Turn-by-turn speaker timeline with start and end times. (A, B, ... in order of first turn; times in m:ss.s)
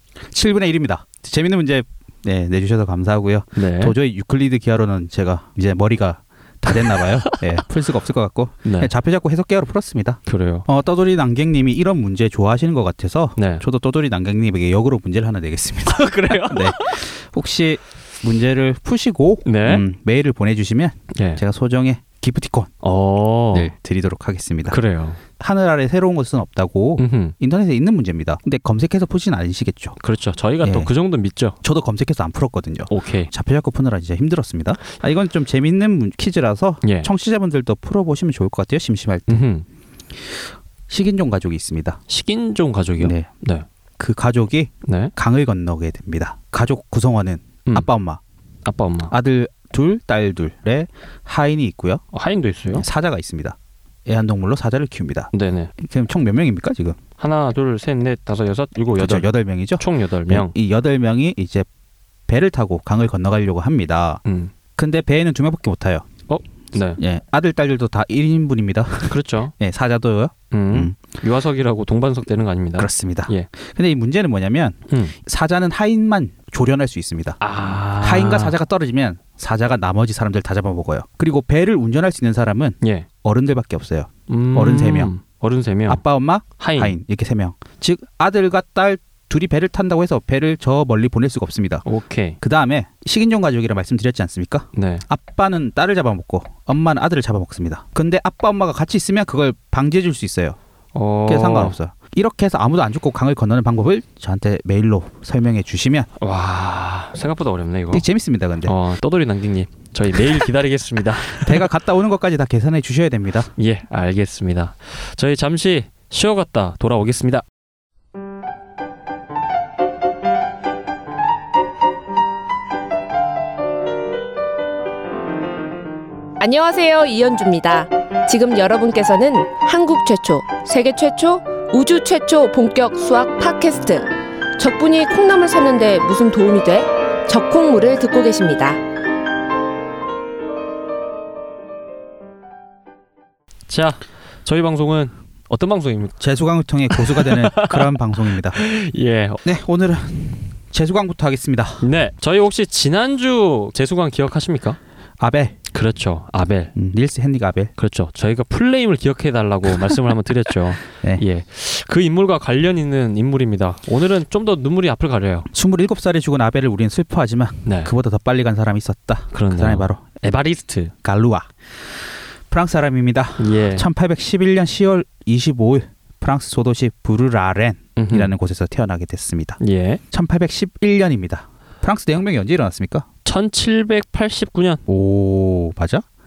0:00.3-0:22.7 A
0:03.6-0:04.0 B
0:06.7-0:07.6 B
0:08.6-0:08.9 B
0:10.3-0:10.7 B
0:13.4-0:13.6 B
0:15.9-0:17.0 B
0:19.4-0:19.9 B
0:21.1-0:21.4 B
0:22.8-0:23.7 B
0:23.5-0:24.8 A
0:24.7-0:25.2 B
0:25.4-0:30.0 A
0:27.0-0:27.4 B
0:30.0-0:31.6 B
0:30.6-0:30.9 A
0:31.6-0:39.5 A
0:32.9-0:33.3 B
0:36.8-0:37.1 B
0:39.3-0:39.7 B
0:40.2-0:42.0 A
0:42.1-0:43.7 B
0:43.0-0:43.3 A
0:44.0-0:48.2 A
0:44.8-0:45.1 B
0:48.6-0:49.1 B
0:49.1-0:52.0 A
0:52.1-0:52.9 B
0:52.7-0:57.0 A
0:55.3-0:55.7 B
0:57.2-1:00.6 B
0:59.0-1:01.7 A
1:02.3-1:04.2 A
1:04.2-1:04.5 B
1:04.8-1:06.1 A
1:06.3-1:07.0 B
1:07.0-1:11.0 A
1:09.1-1:09.5 B
1:10.5-1:13.5 B
1:12.8-1:17.4 A
1:14.9-1:15.2 B
1:17.4-1:18.6 B
1:18.0-1:25.1 A
1:22.8-1:23.1 B
1:24.3-1:26.0 B
1:25.9-1:31.8 A
1:26.6-1:27.0 B
1:31.8-1:32.4 B
1:32.4-1:40.6 A
1:34.8-1:35.1 B
1:40.9-1:41.8 B
1:41.3-1:46.1 A
1:46.2-1:48.0 B
1:47.9-1:48.7 A
1:48.6-1:51.7 B
1:51.3-1:53.5 A
1:53.6-1:57.4 B
2:06.4-2:18.8 C
2:23.7-2:26.2 B
2:26.2-2:28.6 A
2:26.9-2:29.4 B
2:29.4-2:31.8 A
2:31.8-2:34.8 B
2:35.2-2:35.6 A
2:35.7-2:36.7 B
2:36.8-2:37.7 A
2:37.8-2:45.5 B
2:45.5-2:50.0 A
2:47.6-2:47.9 B
2:49.3-2:50.9 B
2:51.0-2:52.0 A
2:52.5-2:59.6 A
2:53.4-2:53.9 B
2:58.0-2:58.3 B
2:59.6-3:00.0 B
3:00.1-3:03.1 A
3:03.2-3:04.8 B
3:04.9-3:06.0 A